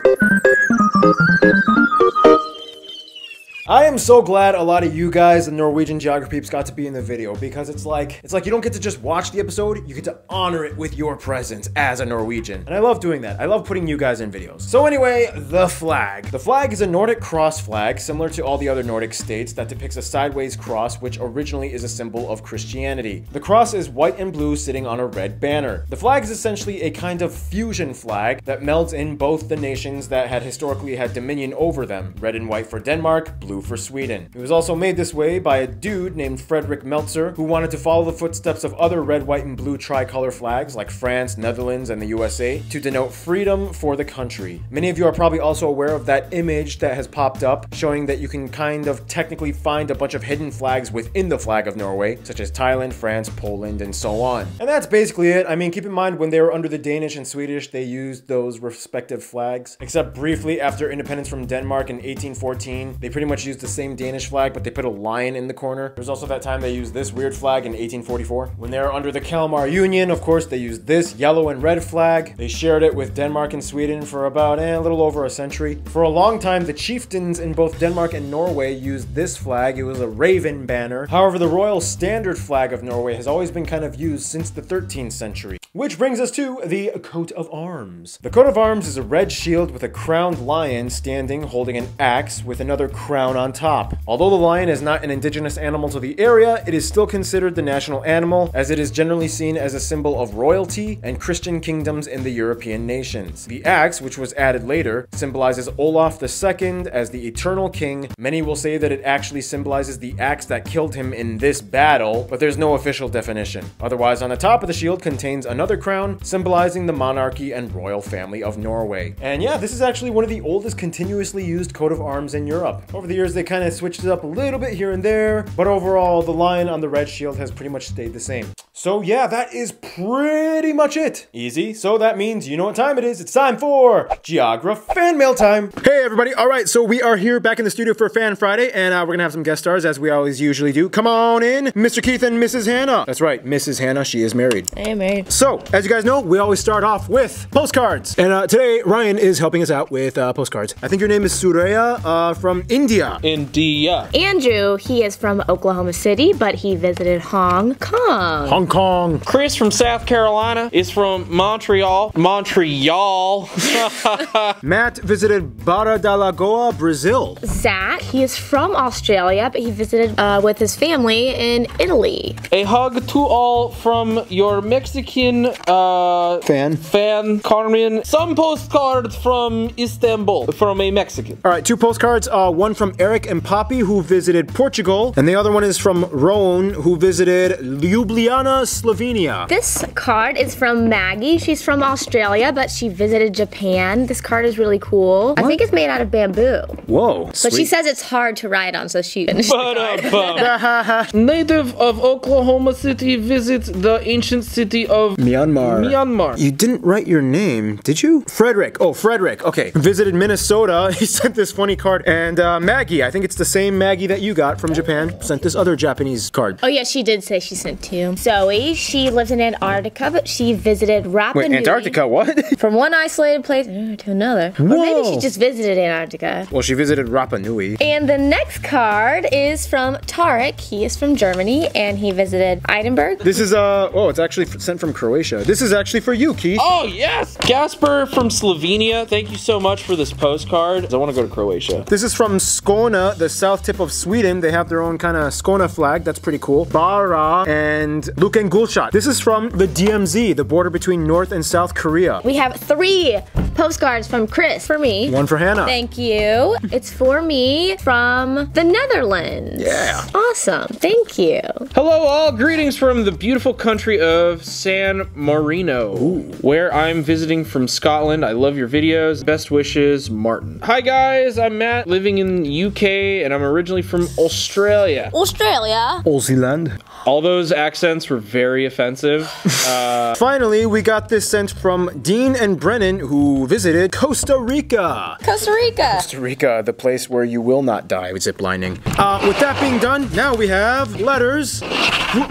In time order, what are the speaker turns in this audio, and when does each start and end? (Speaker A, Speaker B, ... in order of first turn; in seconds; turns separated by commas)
Speaker A: 3.7-144.7, Speaker B: 144.7-145.3, Speaker A: 145.3-153.2, Speaker C: 153.2-154.1, Speaker B: 154.1-158.6, Speaker A: 158.4-159.2, Speaker C: 159.2-164.6, Speaker A: 164.6-167.4, Speaker B: 167.4-172.4, Speaker C: 172.5-181.4, Speaker A: 176.4-176.8, Speaker A: 181.4-189.5, Speaker B: 189.5-196.8, Speaker A: 196.9-197.7, Speaker B: 197.4-200.5, Speaker C: 199.3-200.5, Speaker A: 200.3-201.1, Speaker C: 201.1-206.4, Speaker A: 205.2-216.6, Speaker B: 216.6-222.0, Speaker A: 221.3-222.6, Speaker B: 222.6-226.5, Speaker A: 224.6-225.3, Speaker A: 226.5-227.8, Speaker B: 227.8-233.4, Speaker A: 233.2-236.7, Speaker C: 236.5-241.9, Speaker A: 241.9-252.2, Speaker B: 252.2-261.7, Speaker A: 255.1-255.8, Speaker A: 259.6-260.1, Speaker C: 261.7-275.1, Speaker A: 265.9-266.4, Speaker B: 275.1-276.0, Speaker A: 276.0-276.8, Speaker C: 277.0-280.2, Speaker A: 279.4-285.2, Speaker B: 285.2-286.1, Speaker A: 285.9-291.6